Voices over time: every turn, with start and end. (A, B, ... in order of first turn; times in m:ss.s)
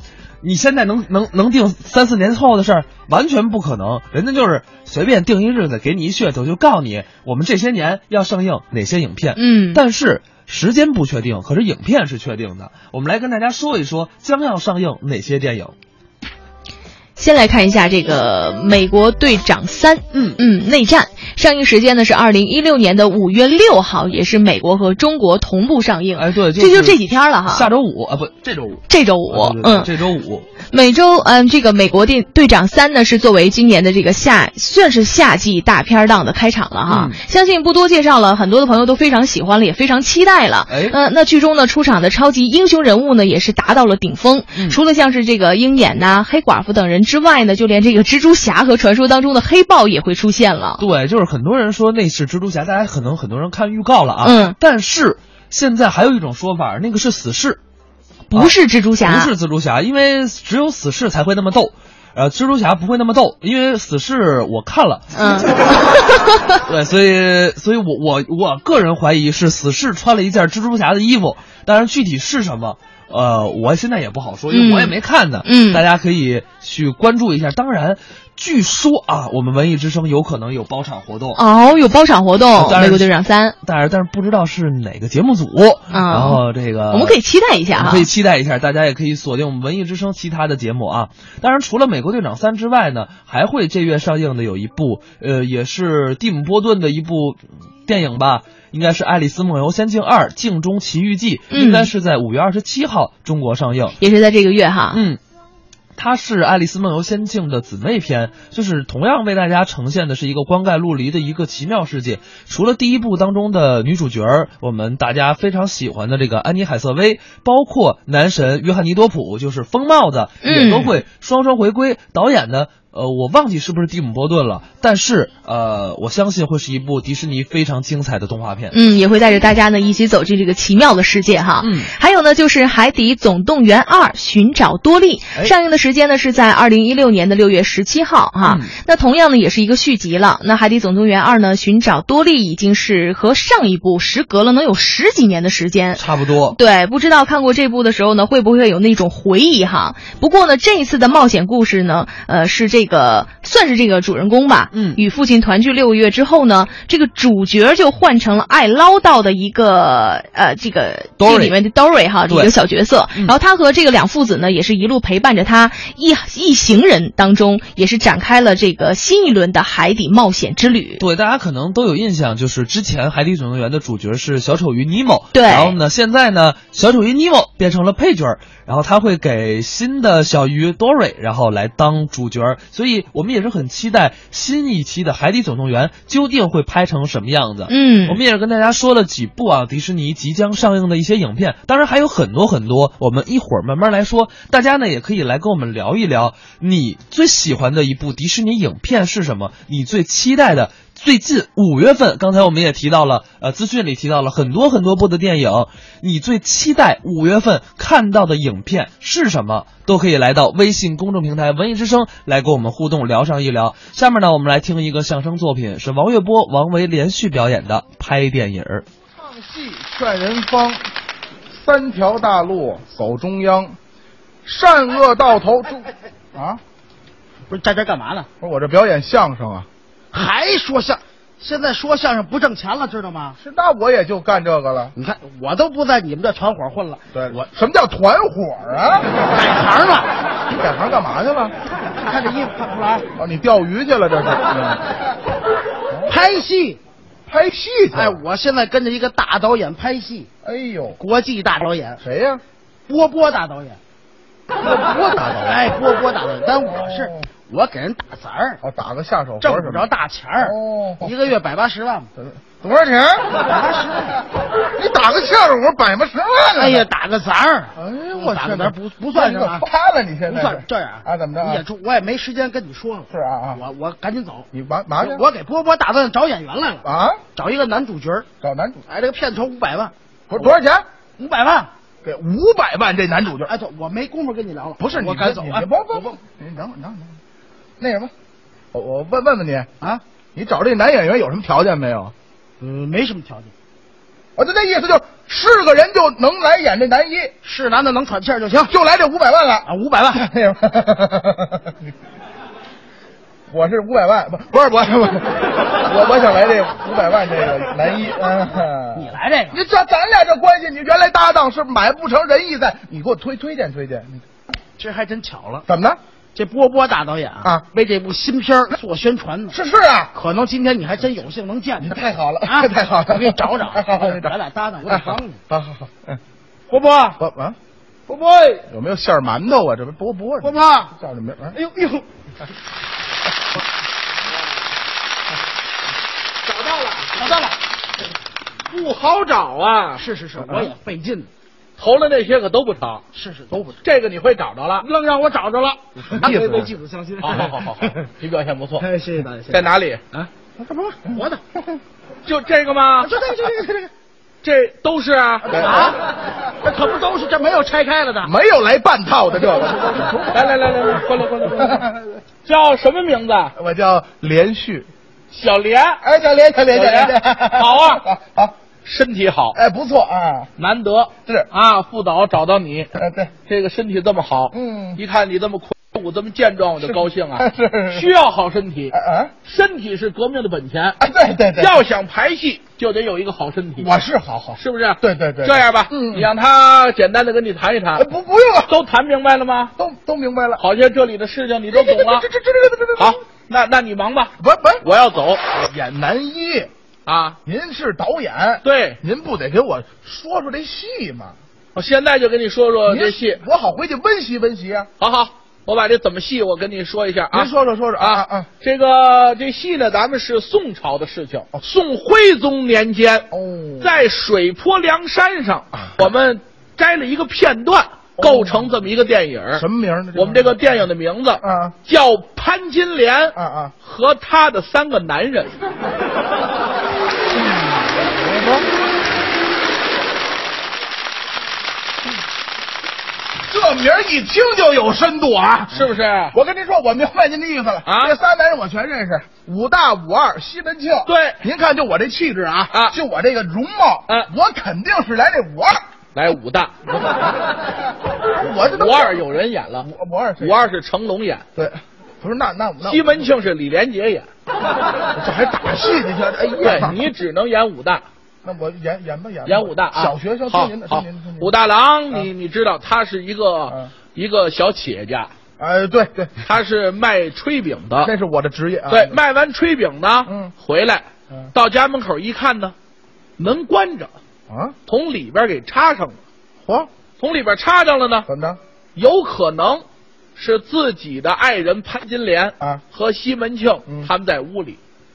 0:00.4-0:15.7 A
0:09.3-0:09.8 B
0:17.2-0:27.7 B
0:20.1-0:20.4 A
0:26.1-0:30.4 A
0:28.9-0:29.9 B
0:30.7-0:50.8 B
0:36.9-0:37.2 A
0:40.7-0:41.0 A
0:50.8-0:57.6 A
0:54.2-0:54.6 B
0:58.3-0:59.3 B
0:58.3-1:06.0 A
1:05.1-1:06.5 B
1:06.7-1:21.4 A
1:14.5-1:15.8 B
1:21.3-1:23.5 B
1:22.5-1:27.2 A
1:25.9-1:28.1 B
1:27.7-1:43.9 A
1:41.5-1:41.9 B
1:44.0-1:45.0 B
1:44.9-1:45.2 A
1:46.0-2:08.8 A
2:00.4-2:00.9 B
2:08.7-2:51.0 B
2:11.6-2:11.9 A
2:18.4-2:18.7 A
2:25.9-2:26.6 A
2:34.7-2:35.0 A
2:41.2-2:41.6 A
2:51.0-3:38.8 A
2:55.3-2:55.8 B
3:07.7-3:08.2 B
3:39.1-3:40.8 C
3:41.5-3:43.8 C
3:44.4-3:46.6 C
3:47.5-3:48.3 D
3:48.4-3:49.7 C
3:50.1-3:53.4 D
3:53.4-3:54.9 C
3:55.0-3:57.0 D
3:57.1-3:59.4 C
3:59.3-4:00.1 D
4:00.5-4:01.5 C
4:02.0-4:03.1 D
4:03.2-4:04.8 C
4:06.0-4:06.8 D
4:07.3-4:08.2 C
4:07.9-4:10.3 D
4:10.4-4:11.0 C
4:11.0-4:12.0 D
4:12.0-4:12.4 C
4:12.9-4:13.8 D
4:14.7-4:15.3 C
4:14.7-4:18.6 D
4:16.7-4:17.2 C
4:18.6-4:19.8 C
4:19.4-4:22.1 D
4:20.4-4:21.1 C
4:22.2-4:22.6 C
4:22.6-4:24.2 D
4:24.8-4:26.8 C
4:26.6-4:29.7 D
4:27.7-4:31.6 C
4:30.3-4:34.5 D
4:33.1-4:33.6 C
4:34.5-4:35.2 C
4:35.0-4:38.2 D
4:36.8-4:37.2 C
4:38.4-4:38.8 C
4:38.8-4:40.6 D
4:40.3-4:40.8 C
4:41.2-4:41.7 D
4:42.0-4:43.5 C
4:43.4-4:46.2 D
4:44.8-4:47.2 C
4:47.8-4:48.1 C
4:48.7-4:49.7 C
4:50.3-4:52.1 C
4:52.6-4:53.5 D
4:54.4-4:57.3 C
4:57.4-4:58.7 D
4:58.7-5:01.6 C
4:59.6-5:00.2 D
5:03.5-5:14.2 C
5:08.9-5:09.6 D
5:14.8-5:15.6 D
5:15.7-5:16.0 C
5:16.4-5:19.6 D
5:19.5-5:20.1 C
5:20.1-5:25.4 D
5:21.8-5:24.3 C
5:24.9-5:26.2 C
5:26.7-5:27.2 D
5:27.2-5:27.6 C
5:28.1-5:28.6 D
5:28.7-5:31.6 C
5:30.4-5:30.9 D
5:31.5-5:32.0 D
5:37.2-5:37.5 D
5:38.7-5:40.0 E
5:40.0-5:41.3 D
5:41.8-5:43.0 E
5:43.1-5:43.8 D
5:43.8-5:44.9 E
5:44.8-5:47.9 D
5:46.2-5:46.7 C
5:47.2-5:48.8 E
5:48.8-5:51.4 D
5:49.5-5:50.0 E
5:52.2-5:53.1 E
5:53.0-5:53.9 D
5:54.4-5:55.6 E
5:55.5-5:55.9 C
5:55.5-5:56.0 D
5:56.6-5:58.3 D
5:58.2-6:00.7 C
6:00.3-6:01.8 E
6:01.6-6:01.9 C
6:02.4-6:03.5 E
6:03.6-6:04.9 C
6:05.3-6:06.0 E
6:06.0-6:08.5 C
6:06.7-6:08.0 E
6:08.8-6:09.6 E
6:09.5-6:10.5 C
6:10.6-6:12.9 E
6:13.0-6:13.3 C
6:13.4-6:18.9 E
6:14.5-6:15.0 C
6:16.8-6:18.1 C
6:18.9-6:19.3 C
6:19.4-6:21.0 E
6:21.0-6:21.8 C
6:21.6-6:23.9 E
6:23.8-6:26.3 C
6:24.6-6:28.0 E
6:27.9-6:28.7 C
6:28.7-6:29.7 E
6:29.8-6:30.6 C
6:30.6-6:32.2 E
6:31.7-6:33.2 C
6:33.0-6:35.4 E
6:34.4-6:34.8 C
6:35.5-6:36.7 C
6:37.0-6:37.4 E
6:37.4-6:41.3 C
6:38.6-6:39.0 E
6:41.7-6:43.4 E
6:42.9-6:44.9 C
6:45.0-6:53.3 E
6:47.3-6:48.5 C
6:53.3-6:53.9 C
6:53.8-7:05.6 E
6:58.2-6:58.7 C
6:59.5-7:00.8 C
7:01.4-7:01.8 C
7:03.3-7:03.7 C
7:08.0-7:08.7 C
7:13.5-7:25.8 C
7:15.7-7:16.4 E
7:17.8-7:18.1 E
7:21.1-7:21.4 E
7:26.1-7:26.8 E
7:28.4-7:29.2 C
7:28.7-7:29.9 E
7:29.8-7:30.6 C
7:30.4-7:31.4 E
7:31.6-7:33.3 C
7:32.8-7:34.3 E
7:35.2-7:37.0 C
7:36.6-7:38.0 E
7:38.4-7:41.5 C
7:39.4-7:45.3 E
7:45.6-7:46.4 C
7:46.4-7:48.1 E
7:48.0-7:49.2 C
7:48.9-7:52.7 E
7:50.3-7:50.5 C
7:53.4-7:54.1 E
7:54.5-7:54.7 C
7:54.9-7:56.2 E
7:57.2-7:58.2 E
7:58.2-7:58.6 C
7:59.0-7:59.8 E
8:00.4-8:04.8 E